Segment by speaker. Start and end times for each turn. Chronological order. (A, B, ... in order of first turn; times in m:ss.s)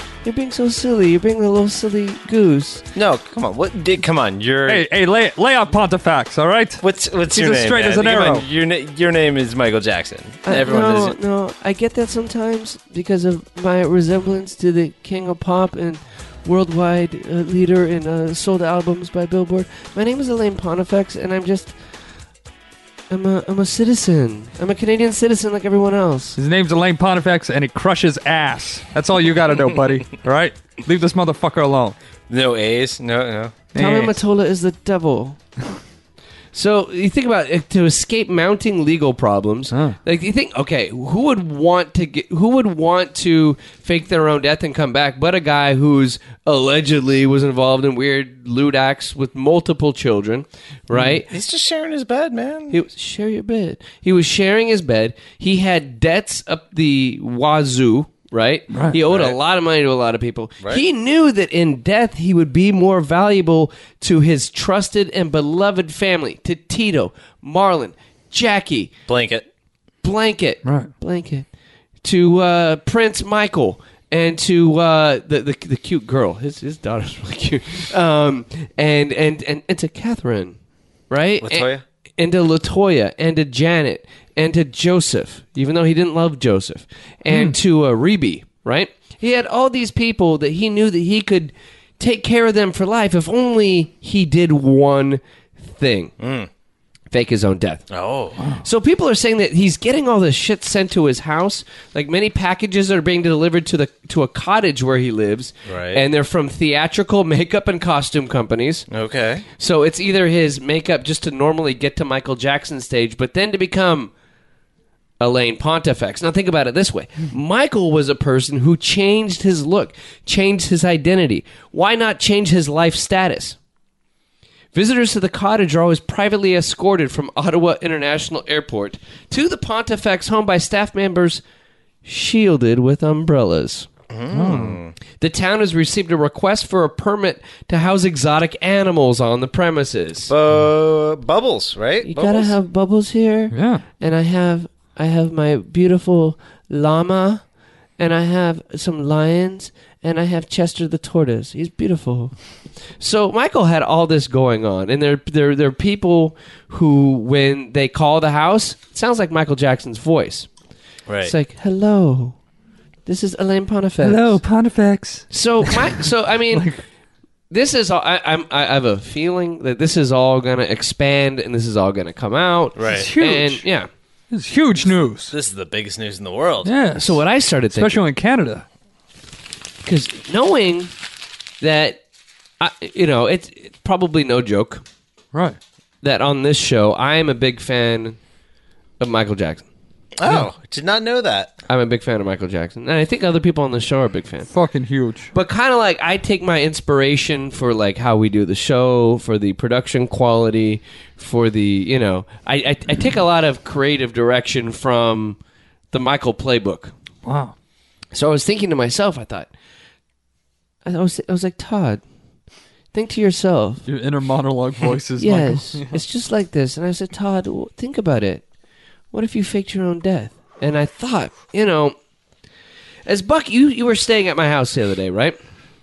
0:00.2-0:02.8 A
0:02.9-0:04.8 B
0:04.7-0:08.4 C
0:06.8-0:11.2 B
0:10.4-0:21.8 A
0:23.1-0:26.4 A
0:26.4-0:32.0 C
0:32.3-0:33.6 B
0:33.7-0:34.2 C
0:33.8-0:35.4 A
0:36.5-0:51.3 A
0:39.7-0:40.0 C
0:50.9-0:51.2 C
0:51.3-0:52.8 B
0:52.7-1:08.9 A
0:58.7-0:59.0 C
0:59.1-0:59.4 B
1:09.1-1:09.4 B
1:10.0-1:11.5 A
1:10.6-1:10.9 C
1:12.0-1:20.6 A
1:21.1-1:36.1 A
1:21.4-1:21.8 B
1:27.3-1:27.6 C
1:36.2-1:36.5 B
1:37.1-1:37.8 A
1:37.9-1:38.4 B
1:38.4-1:38.6 C
1:38.6-1:48.9 A
1:45.7-1:46.0 B
1:48.9-1:49.4 B
1:49.6-1:54.1 A
1:55.2-2:03.6 A
2:04.7-2:11.4 A
2:12.0-2:13.9 A
2:14.1-2:14.9 B
2:14.3-2:14.8 C
2:15.2-2:20.3 A
2:20.3-2:22.5 B
2:22.0-2:27.4 A
2:23.5-2:23.8 C
2:28.0-2:32.3 A
2:33.0-2:40.5 A
2:41.1-2:41.3 B
2:41.2-2:42.4 A
2:43.1-2:44.4 A
2:44.0-2:45.9 C
2:45.3-2:46.7 A
2:46.5-2:46.8 C
2:47.5-2:53.9 A
2:52.8-2:53.1 B
2:52.9-2:53.6 C
2:54.3-2:55.3 C
2:55.3-2:56.7 B
2:56.6-2:57.2 C
2:56.9-2:58.0 A
2:57.7-2:58.6 C
2:59.8-3:00.9 A
3:01.6-3:02.0 A
3:02.6-3:04.8 A
3:05.3-3:05.6 C
3:06.0-3:08.2 A
3:09.0-3:09.6 A
3:10.2-3:11.6 B
3:11.7-3:14.5 A
3:14.5-3:15.3 C
3:15.3-3:25.4 A
3:25.9-3:26.9 A
3:27.2-3:27.5 C
3:28.1-3:29.5 A
3:30.8-3:32.0 A
3:32.9-3:33.8 A
3:33.9-3:36.0 C
3:35.2-3:38.4 A
3:39.1-3:41.9 A
3:43.0-3:45.4 A